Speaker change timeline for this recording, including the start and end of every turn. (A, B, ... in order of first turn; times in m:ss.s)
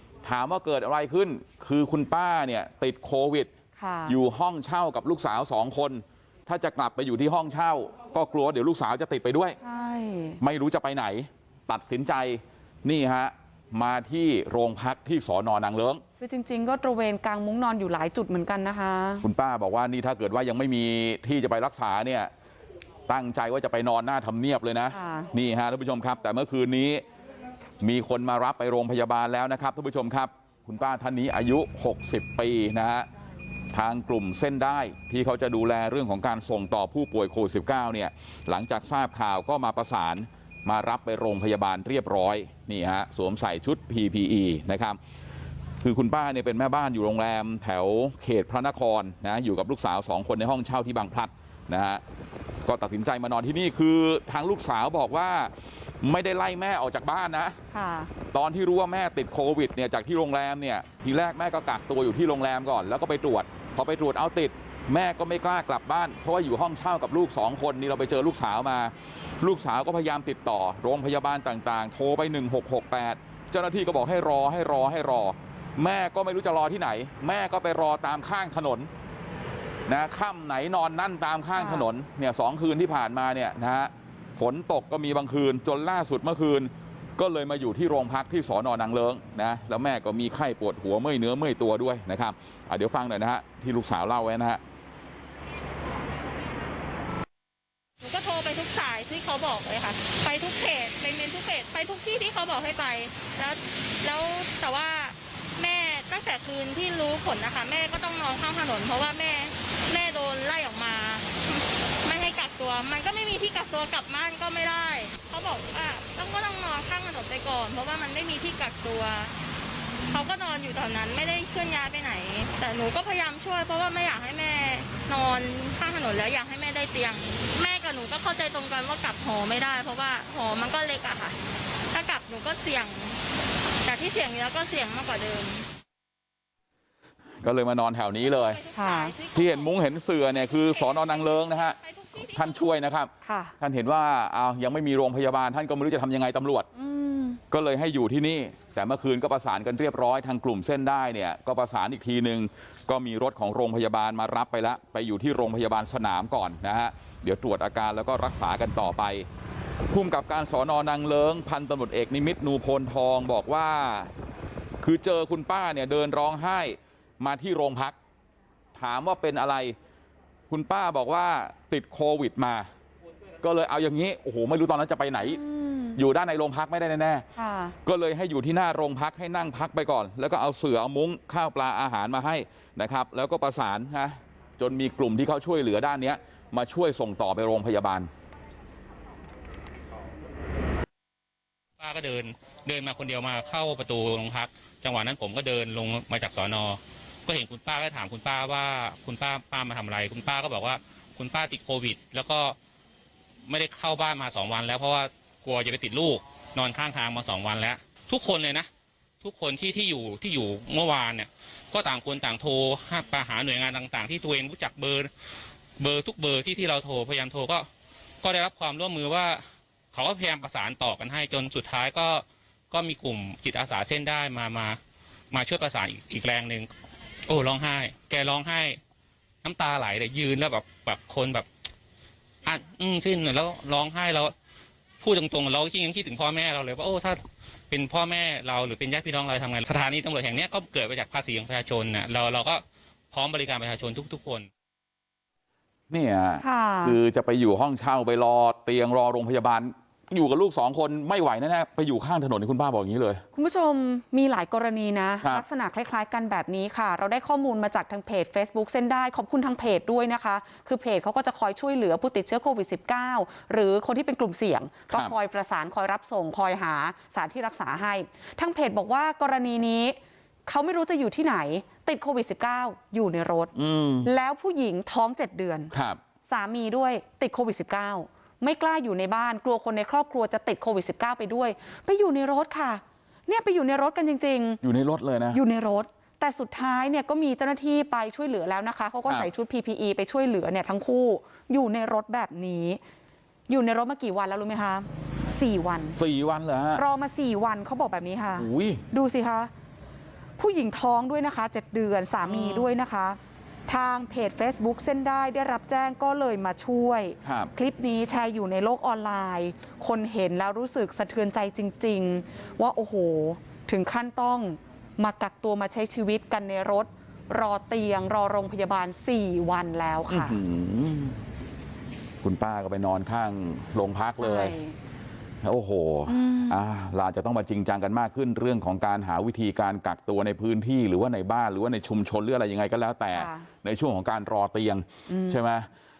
0:00.2-0:03.5 A
0:03.8-0:04.2 B
0:04.1-0:09.6 A
0:09.6-0:10.4 B
0:10.4-0:16.0 A
0:16.2-0:19.2 B
0:19.2-0:22.3 A
0:23.1-0:27.0 A
0:24.9-0:25.3 B
0:27.8-0:33.1 A
0:33.7-0:45.0 A
0:45.8-0:52.0 A
0:52.6-0:57.6 A
0:57.7-0:58.1 B
0:58.3-1:18.9 A
1:19.9-1:34.6 A
1:21.6-1:21.9 B
1:38.0-1:59.3 C
2:00.1-2:11.4 C
2:11.9-2:13.2 C
2:13.8-2:15.7 C
2:17.4-2:18.6 A
2:18.2-2:22.7 C
2:18.7-2:19.1 B
2:19.3-2:26.7 A
2:23.2-2:23.6 B
2:26.7-2:27.4 B
2:27.5-2:39.3 A
2:39.9-2:44.1 A
2:44.8-2:48.0 A
2:48.7-2:49.8 A
2:50.5-2:52.7 A
2:53.4-2:55.4 A
2:55.2-2:56.0 B
2:56.0-2:57.2 A
2:57.4-2:57.8 B
2:57.8-3:08.1 A
3:11.8-3:22.6 D
3:23.5-3:28.7 D
3:29.2-3:35.1 D
3:35.8-3:37.7 D
3:38.2-3:39.4 D
3:39.9-3:44.8 D
3:45.3-3:46.7 D
3:47.3-3:48.8 D
3:49.4-3:51.5 D
3:52.4-3:54.3 D
3:55.0-4:04.5 D
4:05.9-4:13.2 A
4:06.4-4:07.0 B
4:13.3-4:33.5 B
4:33.5-4:34.1 A
4:34.0-4:35.7 B
4:35.7-4:36.0 A
4:36.3-4:44.6 B
4:44.6-4:45.4 A
4:45.3-4:52.8 B
4:53.5-4:56.0 B
4:56.0-4:56.8 A
4:56.8-4:59.5 B
4:58.4-4:58.8 A
5:00.4-5:20.4 B
5:02.3-5:02.6 A
5:07.2-5:07.5 A
5:20.1-5:21.2 A
5:22.2-5:24.6 A
5:24.2-5:24.8 B
5:25.4-5:35.7 A
5:26.1-5:26.6 B
5:33.1-5:33.5 B
5:35.1-5:35.4 B